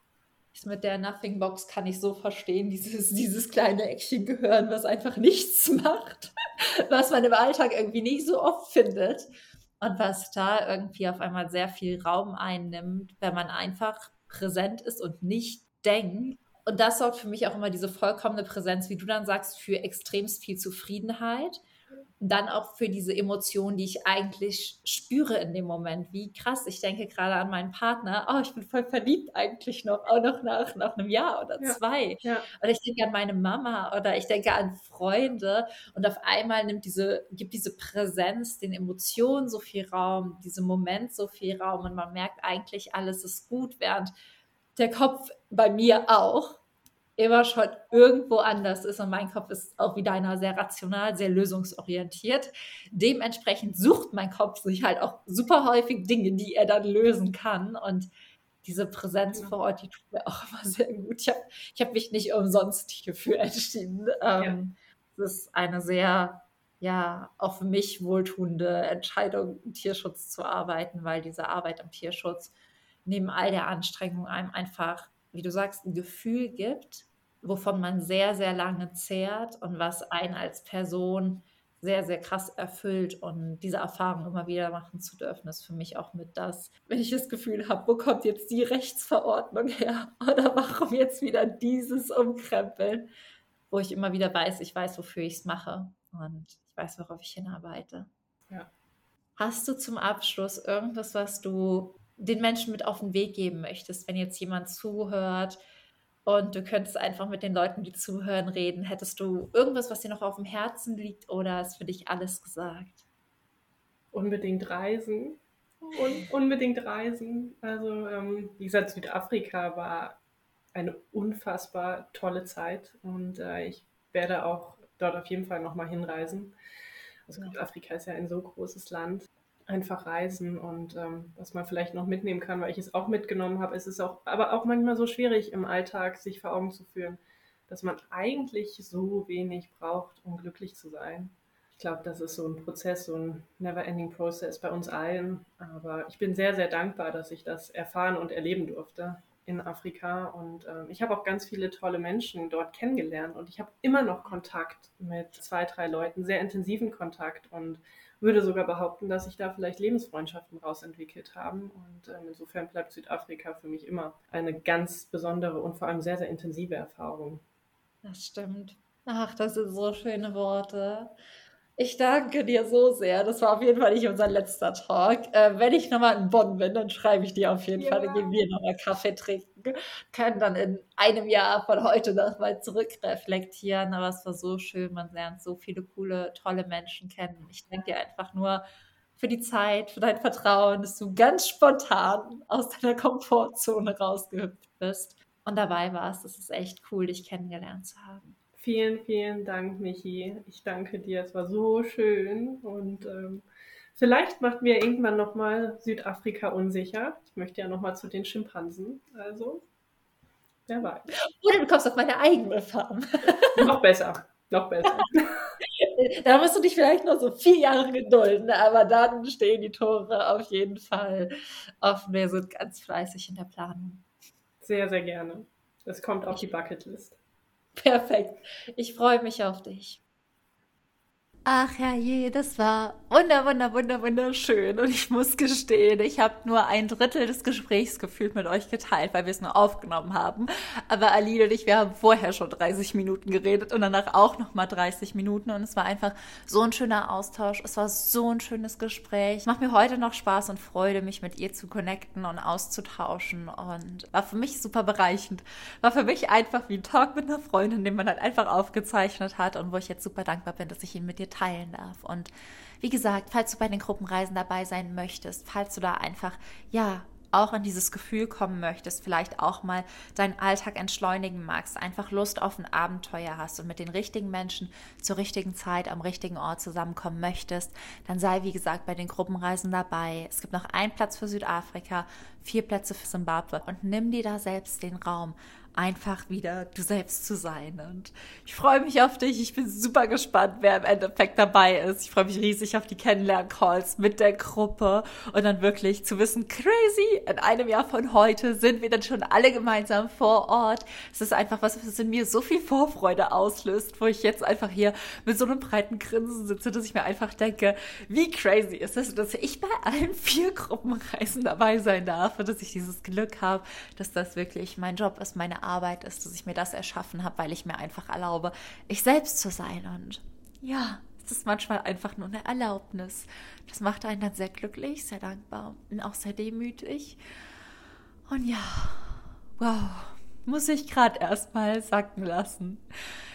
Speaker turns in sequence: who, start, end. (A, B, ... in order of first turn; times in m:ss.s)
0:00.5-0:21.6 A
0:22.2-0:44.1 A
0:31.6-0:32.5 B
0:44.8-0:46.6 A
0:47.2-0:58.1 A
0:58.6-1:12.5 A
1:13.0-1:33.1 A
1:33.7-1:38.1 A
1:39.4-1:45.6 A
1:46.3-1:53.0 A
1:54.1-1:55.4 B
1:55.9-2:00.2 B
2:00.7-2:06.6 B
2:07.3-2:47.4 B
2:48.0-2:51.1 A
2:51.8-3:08.6 A
2:57.8-2:58.3 B
3:09.2-3:18.4 A
3:18.6-3:23.4 B
3:24.0-3:29.6 B
3:30.7-3:31.1 B
3:31.3-3:33.7 A
3:33.6-3:35.5 B
3:35.6-3:44.0 A
3:44.6-3:47.2 B
3:47.8-3:50.0 A
3:51.5-4:22.3 C
4:22.8-5:27.2 C
5:28.3-5:32.8 C